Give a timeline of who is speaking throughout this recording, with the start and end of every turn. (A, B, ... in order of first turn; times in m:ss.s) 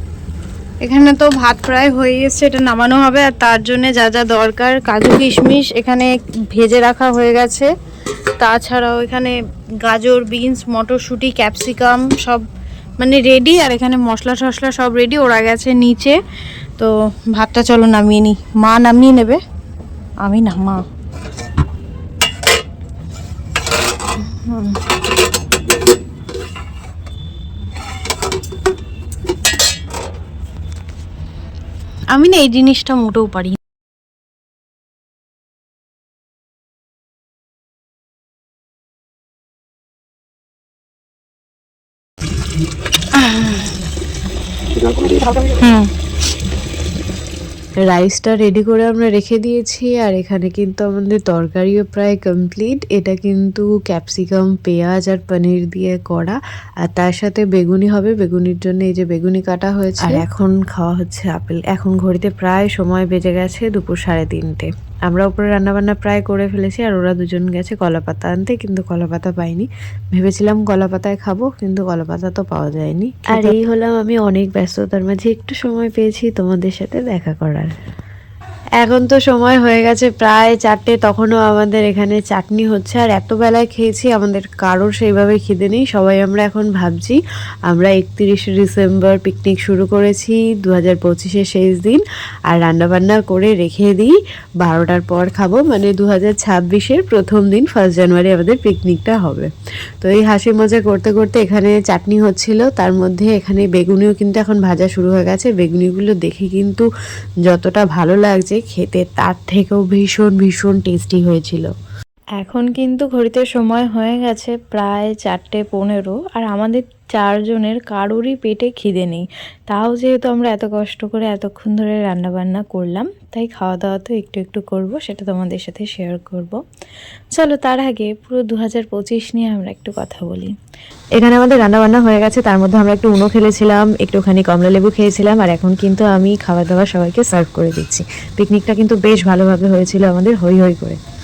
0:00.8-0:07.7 A
0:08.4-0:12.4 A
0:13.0-0:16.2 A
0:16.8-0:19.4 A
0:20.2-0:20.8 A
0:24.2-0:24.8 A
0:32.1-0:33.6 A
0:43.2-0:43.7 A
0:44.9-0:45.9 A
0:47.9-1:17.7 B
1:00.0-1:00.2 C
1:13.3-1:13.5 C
1:18.8-1:46.8 B
1:47.4-1:51.7 B
1:52.4-2:06.6 C
2:07.4-2:10.5 C
2:11.1-2:21.0 B